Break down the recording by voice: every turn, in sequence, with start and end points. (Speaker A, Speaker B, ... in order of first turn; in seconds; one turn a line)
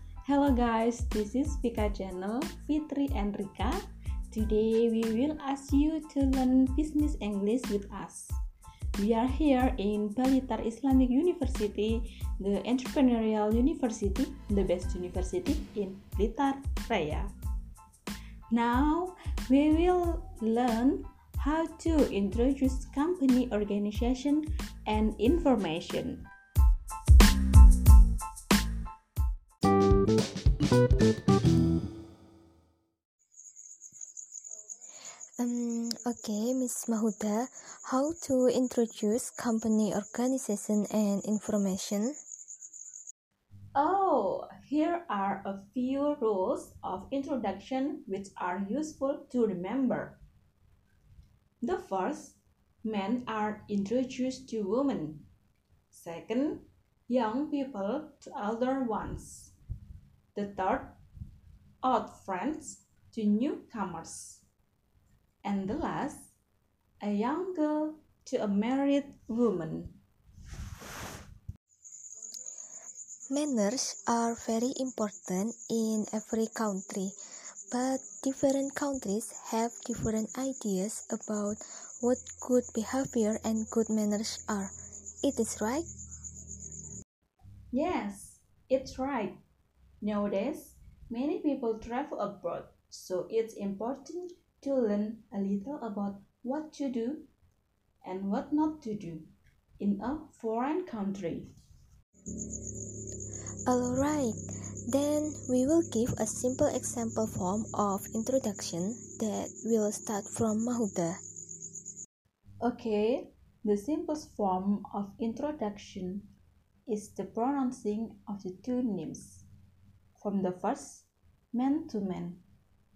Speaker A: 0.2-8.4
Speaker A: 9.0-17.3
Speaker A: 18.5-26.3
Speaker B: 35.4-42.1
Speaker A: 43.8-50.2
Speaker A: 51.6-55.3
Speaker A: 55.9-59.5
Speaker A: 60.4-61.0
Speaker A: 61.8-64.5
Speaker A: 65.4-66.3
Speaker A: 67.0-70.0
Speaker B: 73.3-77.2
Speaker B: 77.7-85.9
Speaker A: 87.7-89.4
Speaker A: 90.0-97.3
Speaker A: 98.0-101.5
Speaker B: 103.7-104.4
Speaker B: 104.9-111.2
Speaker A: 112.6-116.3
Speaker A: 116.9-119.5
Speaker A: 120.2-122.4